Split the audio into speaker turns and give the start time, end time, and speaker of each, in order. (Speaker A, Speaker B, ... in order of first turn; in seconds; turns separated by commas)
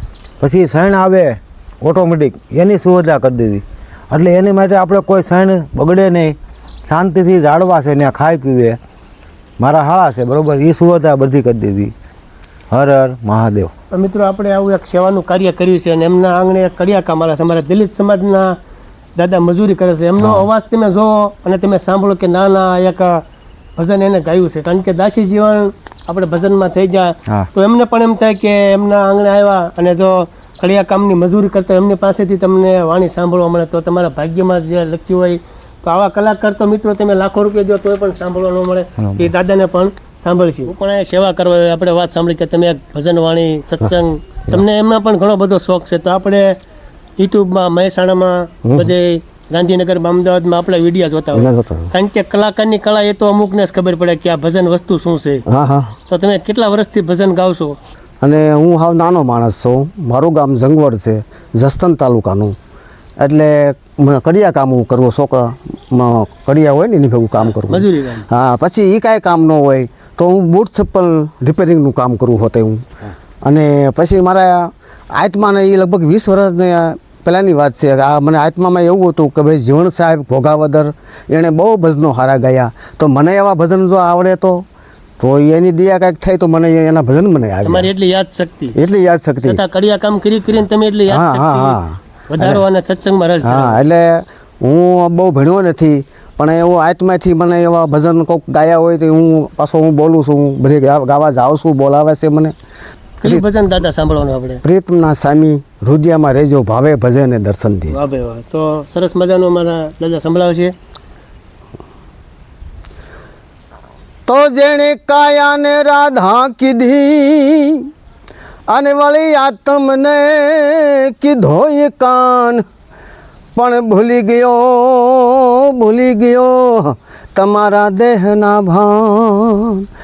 Speaker A: 0.4-8.8, Speaker A: 9.6-11.9, Speaker A: 12.7-13.7, Speaker B: 13.9-18.6, Speaker B: 19.2-23.2, Speaker A: 20.2-20.4, Speaker B: 23.8-46.6, Speaker A: 39.0-39.3, Speaker B: 47.2-55.4, Speaker C: 48.6-48.9, Speaker C: 51.3-51.9, Speaker C: 55.5-55.9, Speaker B: 56.1-57.8, Speaker C: 58.2-62.5, Speaker C: 63.2-72.8, Speaker B: 67.4-68.2, Speaker C: 73.4-84.6, Speaker C: 85.2-87.9, Speaker B: 87.6-88.8, Speaker C: 88.8-89.6, Speaker B: 89.4-93.8, Speaker C: 91.1-92.6, Speaker C: 93.4-102.5, Speaker B: 103.2-104.6, Speaker C: 104.6-108.0, Speaker B: 107.9-110.7, Speaker C: 114.3-117.9, Speaker C: 118.7-122.6, Speaker C: 123.6-129.9